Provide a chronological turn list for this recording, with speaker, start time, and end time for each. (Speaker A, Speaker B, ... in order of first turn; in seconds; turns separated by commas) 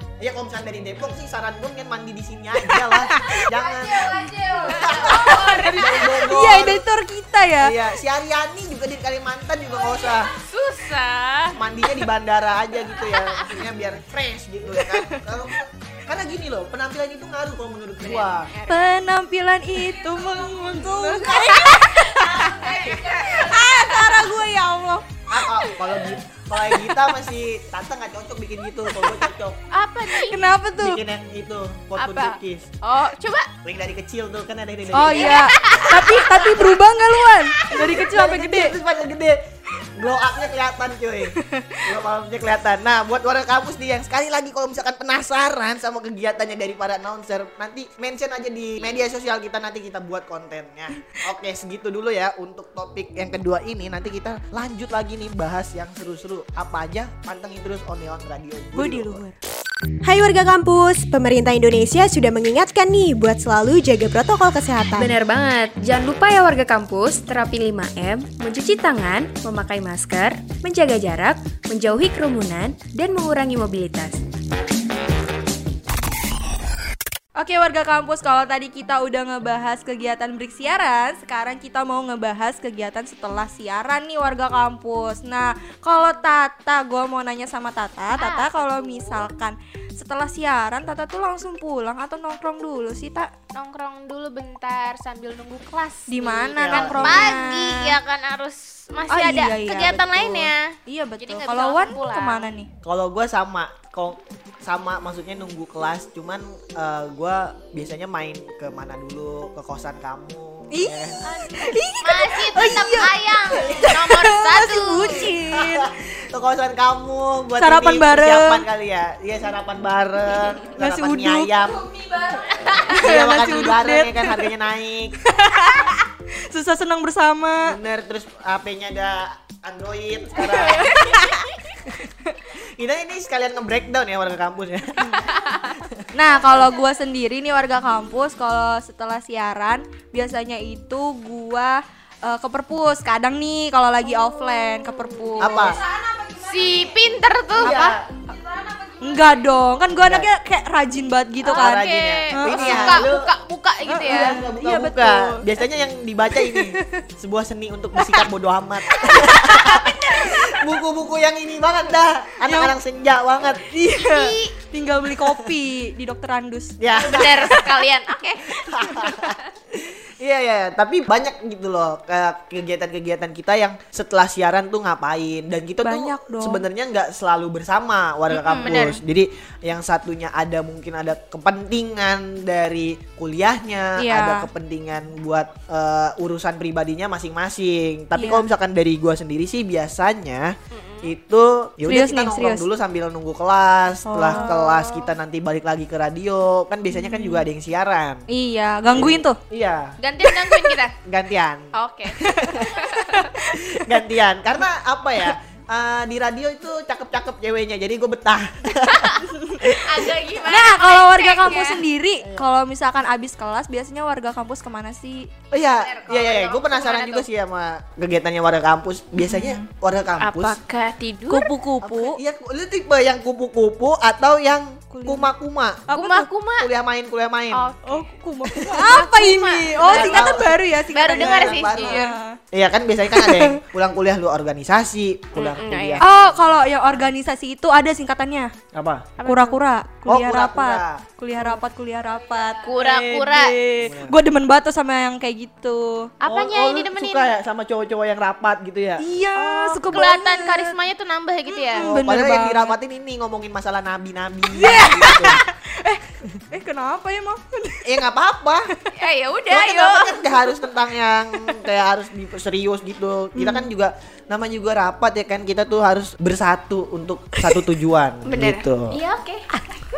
Speaker A: 0.2-6.8, Speaker B: 2.7-3.4, Speaker C: 3.4-6.3, Speaker B: 6.3-7.7, Speaker A: 7.6-10.3, Speaker C: 9.7-11.6, Speaker A: 11.6-18.5, Speaker C: 12.8-13.7, Speaker B: 14.8-15.2, Speaker C: 18.0-18.9, Speaker B: 18.7-25.8, Speaker C: 20.1-20.5, Speaker C: 21.1-24.3, Speaker A: 25.3-29.6, Speaker C: 29.7-30.5, Speaker B: 30.2-31.0, Speaker A: 30.8-32.7, Speaker C: 32.0-33.5, Speaker A: 33.6-35.5, Speaker B: 34.9-38.7, Speaker C: 35.0-36.4, Speaker A: 36.0-36.8, Speaker C: 37.4-38.0, Speaker A: 37.8-39.4, Speaker A: 40.0-59.2, Speaker B: 41.4-41.8, Speaker B: 59.1-59.3, Speaker D: 60.0-65.1, Speaker E: 65.0-74.2, Speaker B: 77.4-93.3, Speaker C: 88.1-89.3, Speaker C: 93.5-102.5, Speaker B: 96.1-97.9, Speaker A: 96.6-97.3, Speaker B: 99.1-102.7, Speaker A: 102.8-111.2, Speaker B: 110.7-115.8, Speaker C: 111.2-115.3, Speaker A: 113.6-113.9, Speaker A: 115.5-121.9, Speaker B: 117.6-118.6, Speaker B: 120.8-121.5, Speaker C: 121.9-123.0, Speaker B: 122.8-124.5, Speaker A: 123.0-125.2, Speaker B: 125.2-127.8, Speaker A: 127.7-131.2, Speaker B: 130.5-131.3, Speaker A: 132.5-135.2, Speaker C: 135.3-135.8, Speaker A: 135.9-136.7, Speaker B: 136.2-146.9, Speaker A: 145.4-145.8, Speaker C: 146.4-148.0, Speaker A: 147.6-148.1, Speaker B: 148.6-153.1, Speaker A: 150.0-150.3, Speaker C: 151.4-154.4, Speaker A: 151.5-153.3, Speaker B: 153.9-155.5, Speaker A: 154.1-163.7, Speaker B: 156.5-156.9, Speaker C: 159.5-160.3, Speaker B: 162.4-162.8, Speaker B: 163.6-166.7, Speaker C: 164.0-164.5, Speaker A: 165.2-165.6, Speaker A: 166.8-167.8, Speaker C: 166.9-169.5, Speaker A: 168.6-198.2, Speaker B: 175.8-176.6, Speaker C: 178.3-179.0, Speaker B: 184.0-184.5, Speaker B: 188.2-188.5, Speaker C: 190.7-191.1, Speaker B: 191.9-192.7, Speaker B: 194.1-195.1, Speaker B: 197.1-197.4, Speaker B: 198.3-199.4, Speaker A: 198.9-199.9, Speaker C: 200.0-200.9, Speaker A: 201.1-202.7, Speaker C: 201.8-203.3, Speaker B: 203.2-203.5, Speaker A: 203.5-209.8, Speaker C: 208.9-211.8, Speaker B: 210.5-215.3, Speaker A: 215.5-220.6, Speaker C: 215.8-217.3, Speaker B: 219.2-219.7, Speaker C: 220.2-221.5, Speaker B: 221.3-222.2, Speaker A: 221.8-225.9, Speaker B: 224.9-225.3, Speaker B: 225.9-226.3, Speaker C: 225.9-226.7, Speaker A: 226.6-227.7, Speaker C: 227.5-228.1, Speaker B: 227.9-232.4, Speaker C: 228.7-232.2, Speaker A: 229.8-236.4, Speaker B: 233.2-233.6, Speaker C: 235.3-236.1, Speaker B: 236.0-238.5, Speaker A: 238.7-239.1, Speaker C: 239.2-239.6, Speaker B: 239.2-246.1, Speaker A: 240.1-241.0, Speaker C: 242.6-243.7, Speaker A: 243.8-244.2, Speaker C: 246.2-247.4, Speaker A: 246.2-249.0, Speaker B: 249.0-250.8, Speaker C: 249.4-251.9, Speaker B: 251.6-252.8, Speaker A: 251.8-255.4, Speaker B: 254.5-257.8, Speaker A: 257.9-258.7, Speaker C: 258.9-260.3, Speaker A: 259.5-269.0, Speaker C: 268.2-269.5